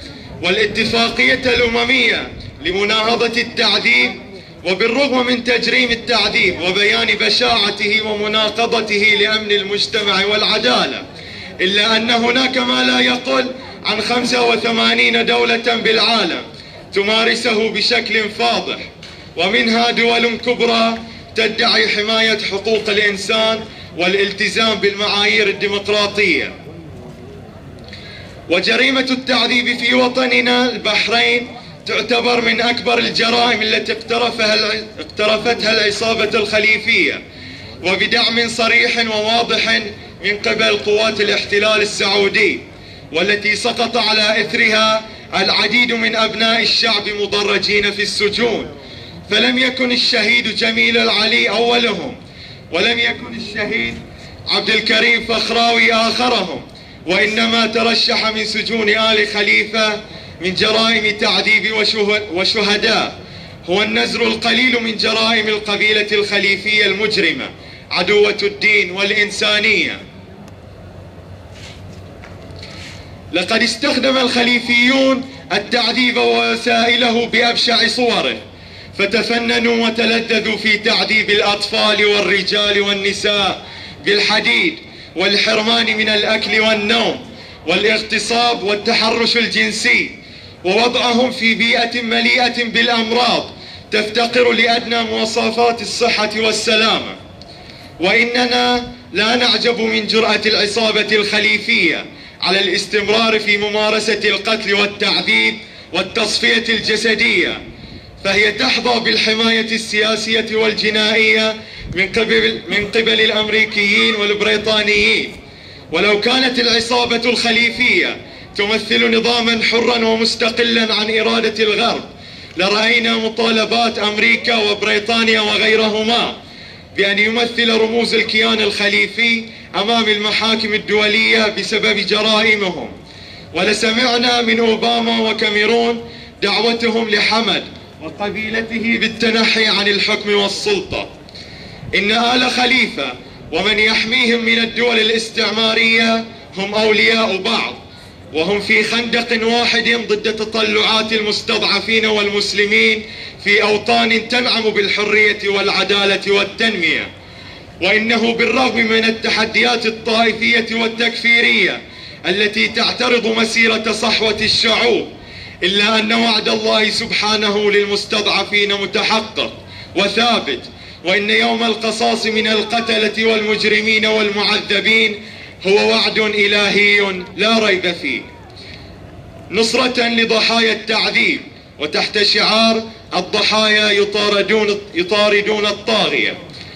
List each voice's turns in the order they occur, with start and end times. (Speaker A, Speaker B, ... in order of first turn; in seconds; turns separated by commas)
Speaker A: 0.4-11.0, Speaker A: 11.6-26.5, Speaker A: 28.5-37.2, Speaker A: 37.8-48.7, Speaker A: 49.3-52.2, Speaker A: 52.7-70.0, Speaker A: 73.3-78.4, Speaker A: 78.9-97.2, Speaker A: 98.0-107.6, Speaker A: 108.2-115.4, Speaker A: 115.9-126.4, Speaker A: 127.0-132.9, Speaker A: 133.5-141.1, Speaker A: 141.9-147.8, Speaker A: 148.3-157.1, Speaker A: 157.8-165.1, Speaker A: 165.6-178.3, Speaker A: 179.5-186.4